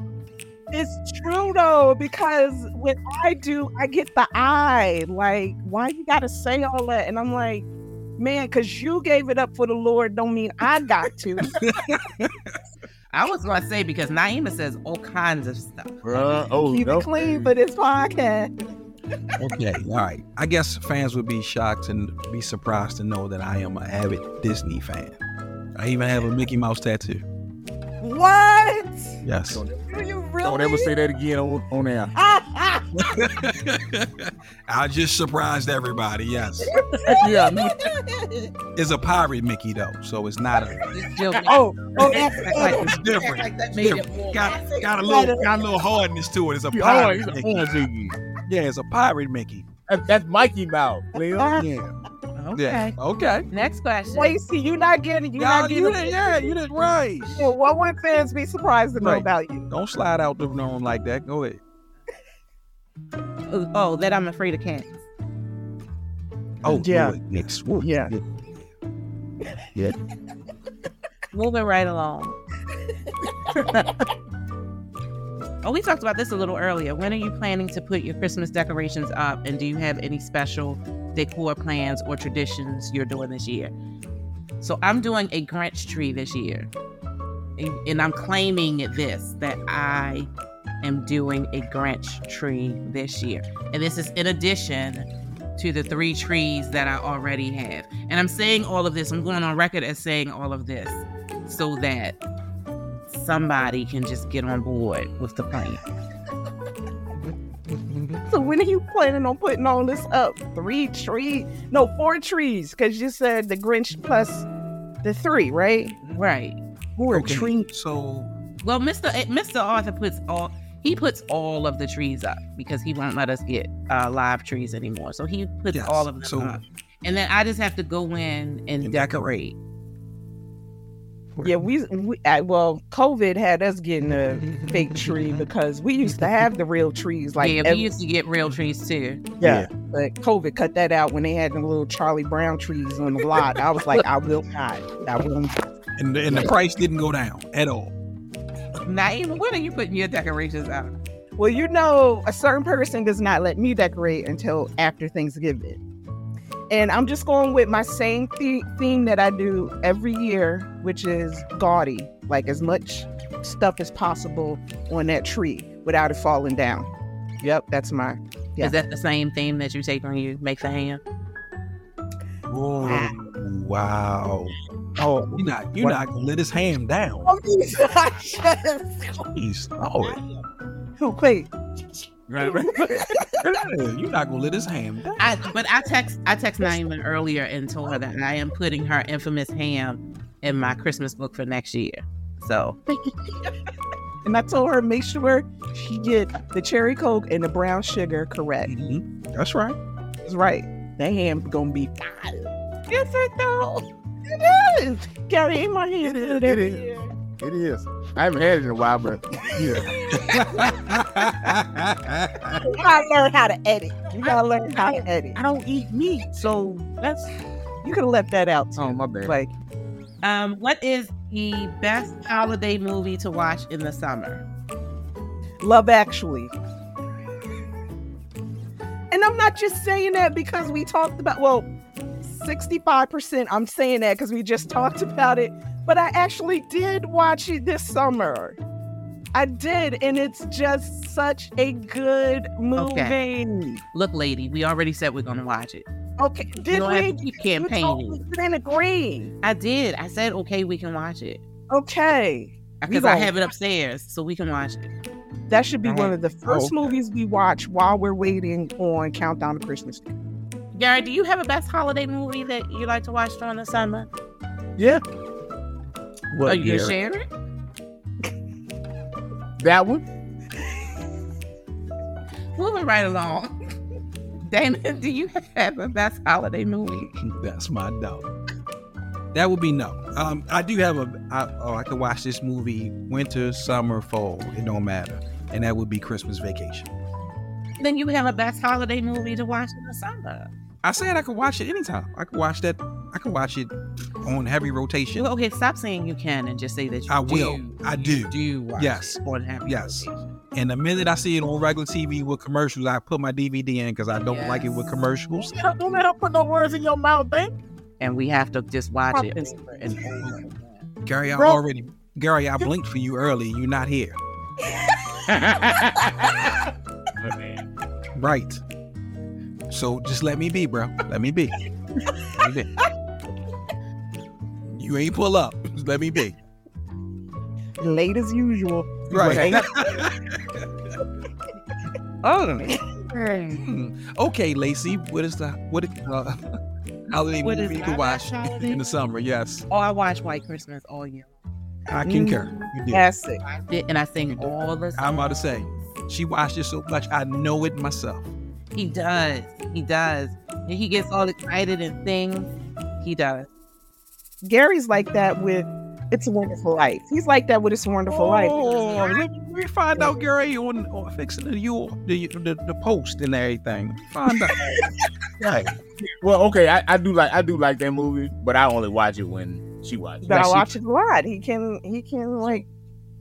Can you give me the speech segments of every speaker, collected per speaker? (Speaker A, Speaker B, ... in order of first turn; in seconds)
Speaker A: 0.7-7.7, 8.2-11.6, 16.7-18.5, 28.0-29.2, 29.9-30.9, 32.1-32.9, 36.8-38.5, 41.5-42.9, 45.0-45.5, 51.3-51.6, 54.1-56.5, 57.3-59.7, 66.8-67.2, 67.8-68.1, 108.2-114.5, 115.0-116.0, 117.0-117.5, 131.4-138.0, 139.4-145.6, 151.4-155.8, 156.7-168.7, 172.8-173.1, 175.0-176.0, 177.2-179.3, 181.0-181.5, 182.4-183.4, 194.2-198.7, 200.2-202.5, 204.2-207.1, 209.8-210.9, 212.6-215.4, 217.8-219.5, 225.6-226.5, 229.1-231.7, 232.2-238.6, 239.3-243.8, 246.2-249.3, 251.7-253.3, 255.5-260.2, 309.1-310.1, 314.7-316.6, 327.8-329.7, 332.2-332.8, 342.0-343.4, 354.4-358.6, 370.2-372.7
Speaker B: 11.4-12.6, 19.4-25.2, 25.7-27.2, 29.2-29.6, 32.9-36.7, 38.7-41.0, 42.0-47.6, 48.5-49.6, 52.5-53.5, 55.4-57.5, 59.0-61.6, 66.6-68.2, 117.1-118.3, 125.7-126.6, 128.8-129.3, 146.0-147.9, 172.5-174.6, 175.3-177.3, 179.3-180.2, 183.4-185.3, 198.7-199.8, 209.6-212.7, 256.4-256.9, 266.3-266.7, 277.2-278.2, 279.3-286.9, 290.8-295.2, 297.1-305.5, 311.0-314.2, 318.1-318.6, 319.7-321.6, 322.3-322.7, 324.7-326.4, 329.1-330.6, 333.5-336.5, 337.1-339.6, 341.9-343.1, 344.3-348.3, 358.1-364.9, 365.4-365.7, 370.3-370.6
Speaker C: 13.1-16.2, 40.9-44.9, 52.3-53.0, 53.5-54.4, 63.5-65.0, 71.3-72.4, 75.6-83.7, 84.6-86.7, 87.6-90.3, 90.8-102.2, 103.1-105.8, 116.1-116.6, 118.6-129.6, 137.4-139.3, 148.8-150.9, 168.6-171.0, 185.2-192.8, 202.9-203.8, 220.2-224.4, 242.8-243.2, 243.9-245.8, 246.7-248.2, 249.4-251.4, 252.8-254.9, 260.7-264.1, 266.4-267.3, 272.5-273.5, 274.4-277.1, 287.8-290.5, 295.1-300.3, 304.2-304.9, 308.0-310.9, 333.0-333.6, 337.4-338.8, 339.7-341.3, 343.4-345.4, 348.7-353.5, 358.6-359.1
Speaker D: 16.0-17.5, 29.5-29.8, 30.4-32.1, 37.0-37.9, 41.3-42.8, 46.7-48.2, 49.9-51.9, 139.4-139.7, 182.3-183.2, 206.0-210.0, 215.3-217.0, 218.8-219.3, 264.8-265.0, 266.4-266.9, 269.6-270.0, 305.4-307.6, 311.3-311.6, 315.3-316.6, 317.2-317.7, 329.1-329.7, 366.2-370.6